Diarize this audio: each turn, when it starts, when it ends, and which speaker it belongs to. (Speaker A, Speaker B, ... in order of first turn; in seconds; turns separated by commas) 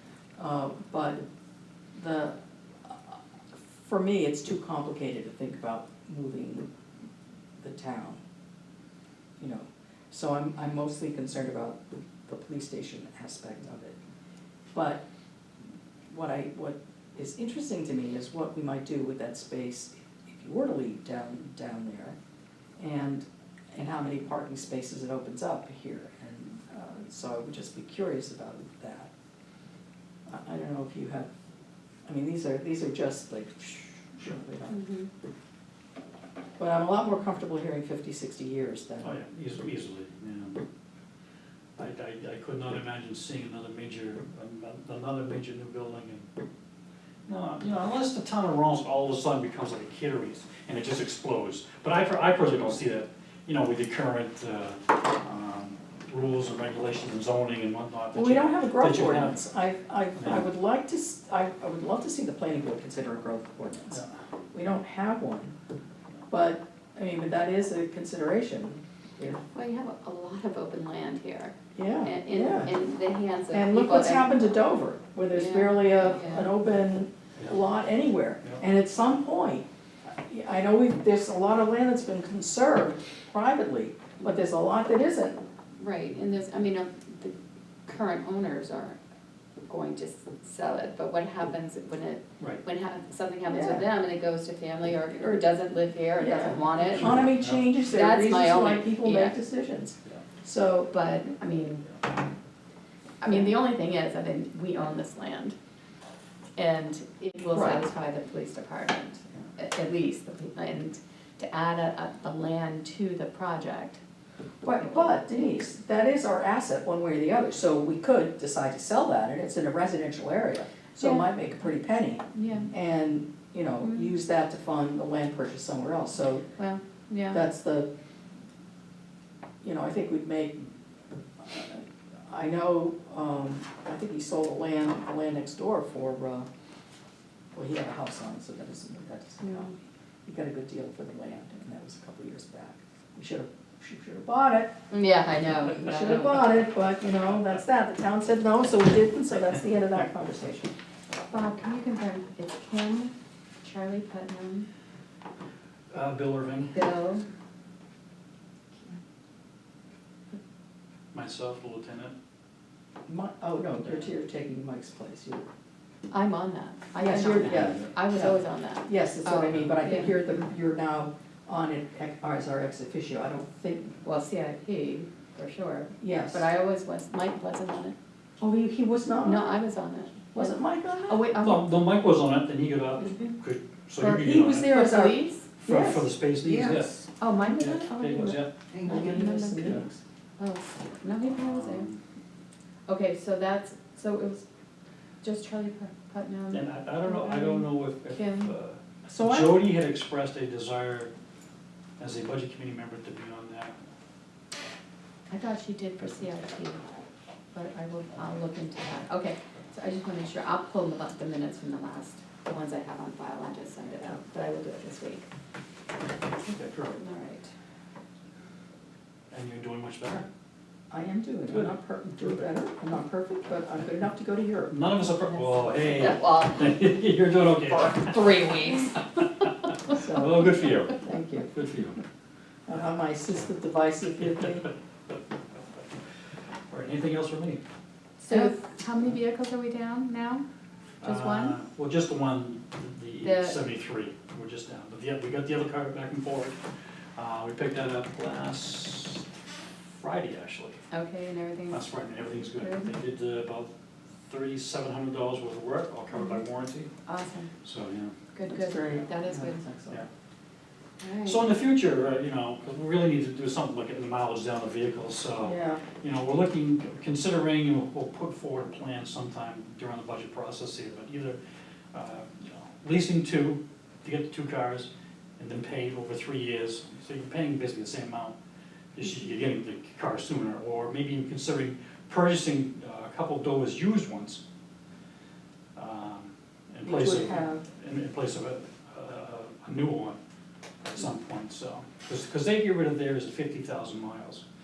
Speaker A: 0.4-1.2, Speaker A: 1.9-3.2, Speaker A: 3.7-6.7, Speaker A: 7.6-8.2, Speaker A: 9.4-14.0, Speaker A: 14.7-15.0, Speaker A: 16.1-22.2, Speaker A: 22.8-29.1, Speaker A: 30.3-31.3, Speaker A: 32.1-34.8, Speaker B: 34.7-35.1, Speaker A: 36.6-39.2, Speaker C: 39.0-40.6, Speaker C: 41.8-46.3, Speaker C: 47.3-59.4, Speaker A: 58.1-64.0, Speaker C: 60.2-60.5, Speaker A: 64.5-65.5, Speaker A: 66.3-69.4, Speaker B: 69.5-74.6, Speaker A: 71.8-72.8, Speaker A: 73.5-85.5, Speaker B: 75.3-76.5, Speaker B: 85.8-89.0, Speaker B: 89.7-97.2, Speaker A: 93.5-93.9, Speaker A: 95.2-95.4, Speaker A: 96.2-100.9, Speaker C: 96.8-97.7, Speaker B: 97.9-99.4, Speaker B: 100.9-101.9, Speaker B: 103.2-105.6, Speaker A: 103.3-103.5, Speaker B: 106.6-114.0, Speaker A: 107.5-107.9, Speaker A: 114.6-126.5, Speaker B: 114.7-115.3, Speaker B: 121.0-121.3, Speaker B: 122.3-122.7, Speaker B: 123.8-124.2, Speaker B: 126.6-127.5, Speaker A: 127.3-127.9, Speaker A: 129.6-130.7, Speaker A: 131.4-136.5, Speaker A: 137.5-144.8, Speaker B: 139.4-139.7, Speaker B: 144.9-146.7, Speaker A: 145.7-150.7, Speaker B: 151.3-154.7, Speaker C: 155.9-156.8, Speaker B: 156.7-157.3, Speaker C: 161.1-162.2, Speaker A: 163.1-165.5, Speaker B: 166.1-170.2, Speaker A: 167.0-174.0, Speaker B: 174.0-177.9, Speaker A: 176.0-176.5, Speaker A: 178.4-179.5, Speaker B: 179.2-181.7, Speaker A: 180.3-181.3, Speaker C: 181.3-184.8, Speaker B: 183.0-183.3, Speaker A: 184.0-187.0, Speaker B: 184.6-185.5, Speaker C: 185.7-188.6, Speaker B: 187.2-189.9, Speaker A: 188.7-190.0, Speaker B: 190.4-191.9, Speaker C: 191.3-192.0, Speaker B: 192.9-194.4, Speaker B: 195.2-198.5, Speaker C: 196.5-201.1, Speaker A: 199.1-199.7, Speaker C: 202.0-203.8, Speaker B: 205.3-206.8, Speaker B: 207.5-215.3, Speaker C: 216.5-217.0, Speaker B: 216.9-217.5, Speaker C: 219.3-220.3, Speaker A: 220.9-224.8, Speaker C: 221.5-222.5, Speaker C: 224.7-228.3, Speaker B: 225.5-226.7, Speaker B: 227.9-229.1, Speaker A: 229.9-231.5, Speaker C: 229.9-232.0, Speaker A: 232.7-234.7, Speaker C: 236.7-237.6, Speaker B: 238.2-240.4, Speaker C: 241.0-246.6, Speaker B: 241.0-241.6, Speaker B: 243.2-243.6, Speaker C: 247.2-249.3, Speaker C: 249.9-250.9, Speaker B: 250.9-252.9, Speaker C: 251.7-253.7, Speaker C: 254.2-256.9, Speaker B: 257.1-257.5, Speaker C: 257.6-258.1, Speaker B: 258.3-259.6, Speaker A: 258.5-260.0, Speaker B: 261.0-261.4, Speaker C: 261.2-271.4, Speaker A: 265.4-265.8, Speaker C: 271.9-278.4, Speaker C: 278.9-284.4, Speaker C: 285.8-290.2, Speaker A: 286.8-287.6, Speaker C: 290.8-294.4